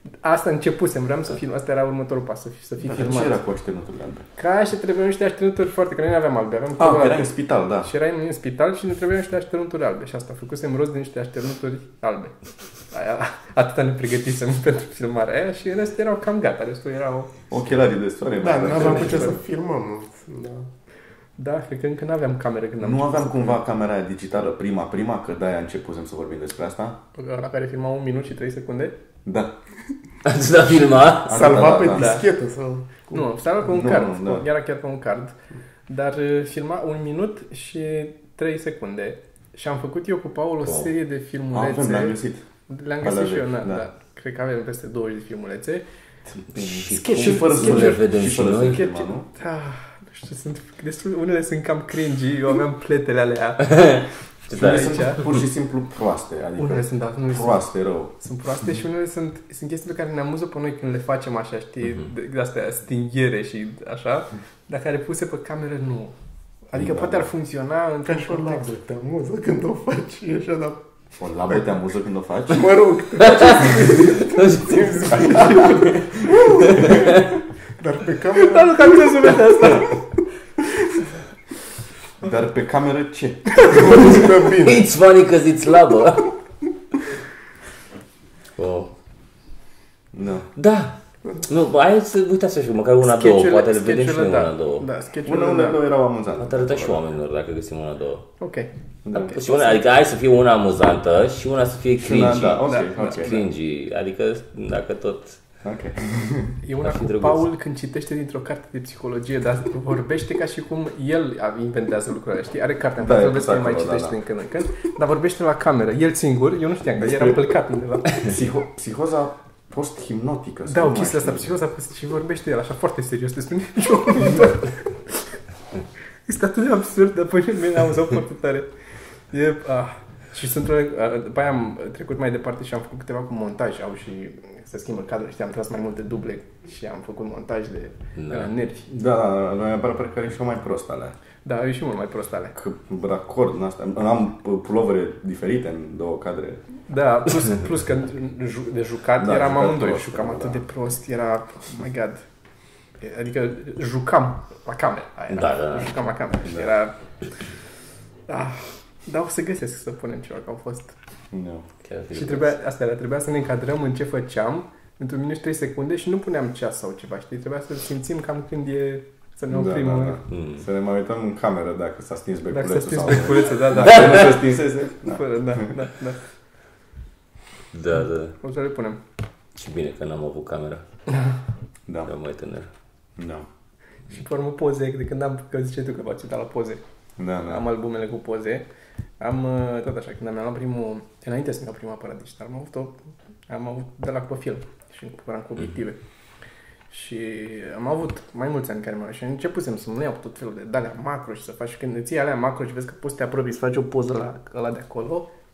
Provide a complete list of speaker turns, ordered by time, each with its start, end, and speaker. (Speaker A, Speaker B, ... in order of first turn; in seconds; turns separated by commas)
Speaker A: 0.2-3.4, Speaker B: 2.8-4.3, Speaker A: 4.4-7.3, Speaker B: 6.8-7.9, Speaker A: 7.8-12.3, Speaker A: 12.9-17.3, Speaker B: 17.5-19.4, Speaker C: 18.4-20.7, Speaker A: 18.7-19.4, Speaker A: 21.4-23.6, Speaker B: 22.8-27.0, Speaker A: 27.1-28.9, Speaker B: 29.2-29.5, Speaker D: 30.2-31.7, Speaker B: 31.2-32.2, Speaker C: 31.3-33.1, Speaker A: 31.9-32.2, Speaker A: 33.1-35.3, Speaker B: 33.6-34.4, Speaker A: 35.9-45.8, Speaker D: 40.6-40.9, Speaker B: 41.5-42.4, Speaker B: 43.0-43.8, Speaker D: 46.5-48.9, Speaker B: 46.5-49.3, Speaker A: 46.7-55.2, Speaker D: 53.6-55.4, Speaker B: 54.5-58.1, Speaker A: 56.6-66.1, Speaker A: 66.7-68.7, Speaker B: 66.8-67.1, Speaker C: 68.0-70.8, Speaker B: 71.2-72.8, Speaker C: 72.5-77.2, Speaker D: 73.2-76.0, Speaker B: 75.2-75.8, Speaker D: 76.6-77.2, Speaker C: 77.8-79.3, Speaker A: 78.3-80.0, Speaker B: 82.2-84.2, Speaker C: 83.7-84.9, Speaker D: 84.1-86.3, Speaker D: 88.6-88.9, Speaker B: 90.1-90.5, Speaker D: 90.5-94.8, Speaker A: 93.0-95.8, Speaker B: 95.2-97.0, Speaker D: 96.4-98.2, Speaker A: 98.4-99.8, Speaker B: 99.0-99.3, Speaker D: 99.2-105.4, Speaker B: 102.0-103.4, Speaker A: 102.6-103.4, Speaker B: 105.6-106.6, Speaker A: 106.6-118.2, Speaker D: 106.8-107.4, Speaker B: 113.0-114.2, Speaker B: 117.0-117.5, Speaker B: 118.1-121.5, Speaker A: 120.7-125.2, Speaker A: 126.2-128.7, Speaker A: 129.3-138.9, Speaker D: 138.2-138.5, Speaker B: 138.9-141.2, Speaker A: 141.4-142.5, Speaker B: 142.5-146.6, Speaker A: 146.9-152.2, Speaker B: 149.2-150.6, Speaker A: 153.0-156.9, Speaker D: 155.3-155.9, Speaker A: 158.3-160.9, Speaker B: 161.3-161.7, Speaker D: 161.8-162.5, Speaker A: 162.1-170.2, Speaker B: 169.5-175.7, Speaker D: 170.3-170.6, Speaker A: 172.5-176.2, Speaker D: 177.7-178.3, Speaker A: 178.4-179.0, Speaker D: 179.5-180.8, Speaker D: 182.1-182.7, Speaker B: 183.2-183.4, Speaker A: 184.1-186.8, Speaker B: 187.2-187.6, Speaker A: 187.5-188.7, Speaker A: 189.2-192.9, Speaker A: 193.5-196.0, Speaker A: 196.9-205.3